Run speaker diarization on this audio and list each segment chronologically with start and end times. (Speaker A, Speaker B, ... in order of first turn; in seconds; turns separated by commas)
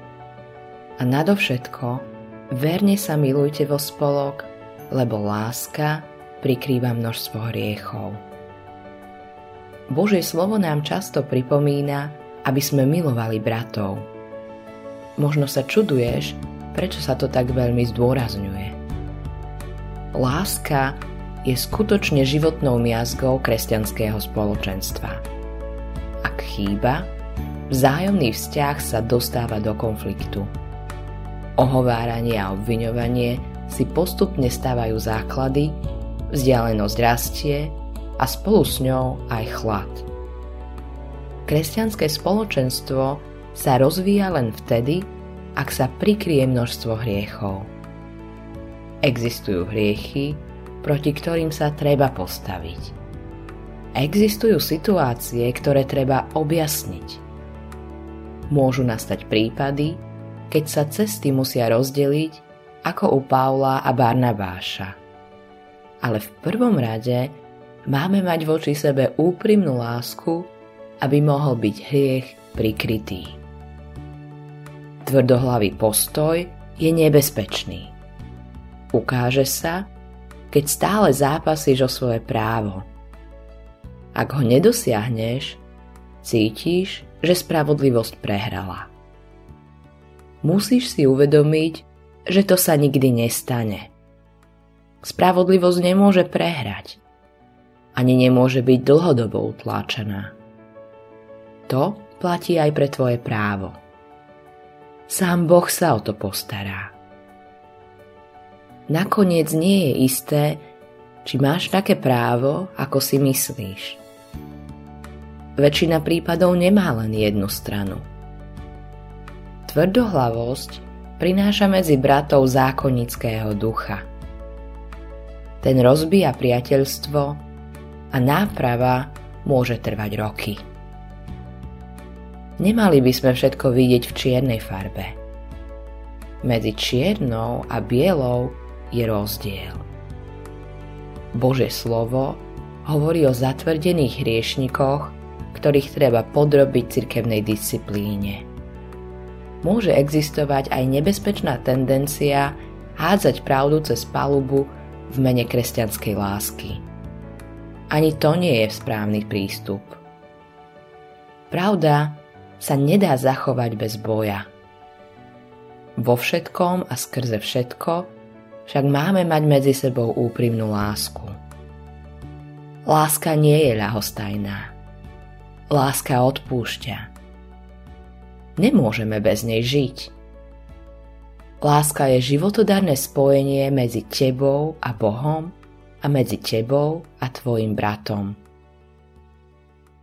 Speaker A: 1.0-8.2, Speaker A: 9.9-14.1, Speaker A: 15.2-18.8, Speaker A: 20.1-25.2, Speaker A: 26.2-27.1, Speaker A: 27.7-30.5, Speaker A: 31.6-40.1, Speaker A: 41.5-47.7, Speaker A: 49.0-53.0, Speaker A: 53.9-57.2, Speaker A: 58.5-65.0, Speaker A: 66.0-73.4, Speaker A: 75.0-77.9, Speaker A: 78.9-79.9, Speaker A: 80.5-82.9, Speaker A: 84.1-85.6, Speaker A: 86.2-88.9, Speaker A: 90.4-93.9, Speaker A: 95.0-97.0, Speaker A: 97.9-100.3, Speaker A: 101.7-103.8, Speaker A: 105.1-106.9, Speaker A: 108.9-110.7, Speaker A: 111.2-114.0, Speaker A: 115.5-118.1, Speaker A: 119.6-124.1, Speaker A: 125.6-127.4, Speaker A: 128.1-130.6, Speaker A: 132.6-135.2, Speaker A: 136.4-139.9, Speaker A: 141.3-148.5, Speaker A: 149.6-156.8, Speaker A: 157.9-160.0, Speaker A: 161.5-164.5, Speaker A: 165.9-168.1, Speaker A: 168.7-171.4, Speaker A: 172.8-174.8, Speaker A: 175.7-177.1, Speaker A: 178.6-180.1, Speaker A: 181.6-188.4